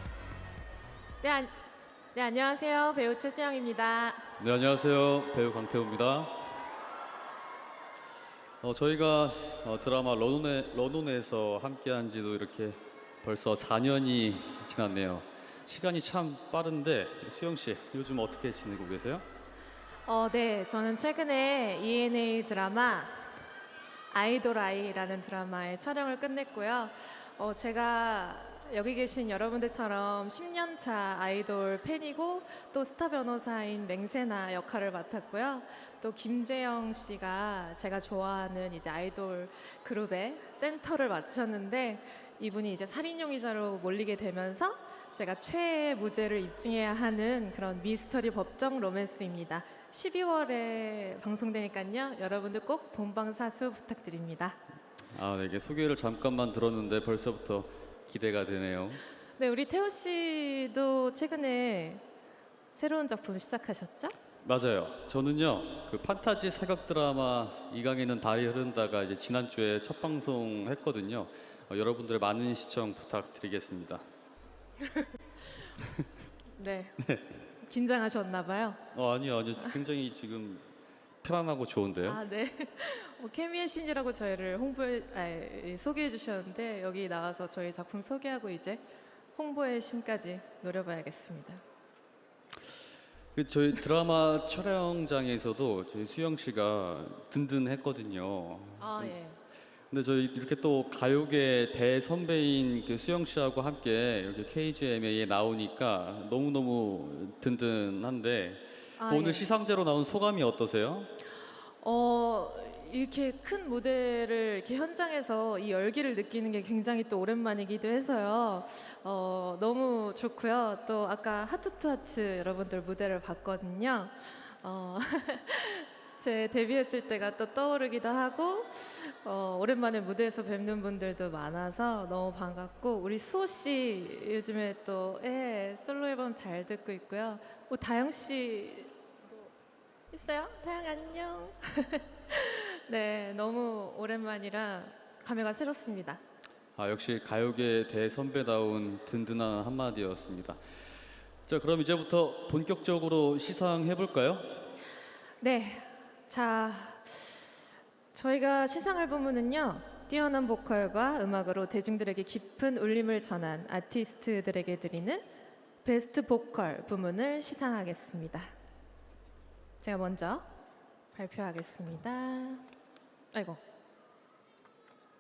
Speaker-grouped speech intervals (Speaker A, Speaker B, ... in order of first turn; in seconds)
Speaker A: 1.2-1.5, 2.1-4.2, 20.1-23.2, 24.1-54.6, 59.4-62.0, 62.8-64.1, 76.6-77.0, 77.6-78.8, 82.1-88.8, 89.4-91.6, 98.8-99.4, 109.0-109.5, 111.8-138.9, 140.1-146.2, 155.4-157.2, 158.1-165.2, 165.8-168.5, 169.8-170.4, 171.1-172.6, 173.3-173.6
Speaker B: 4.4-6.5, 8.6-19.2, 55.1-59.0, 64.4-74.0, 77.0-77.3, 78.9-80.6, 81.2-82.2, 93.3-99.2, 99.9-111.1, 146.8-150.6, 151.5-154.7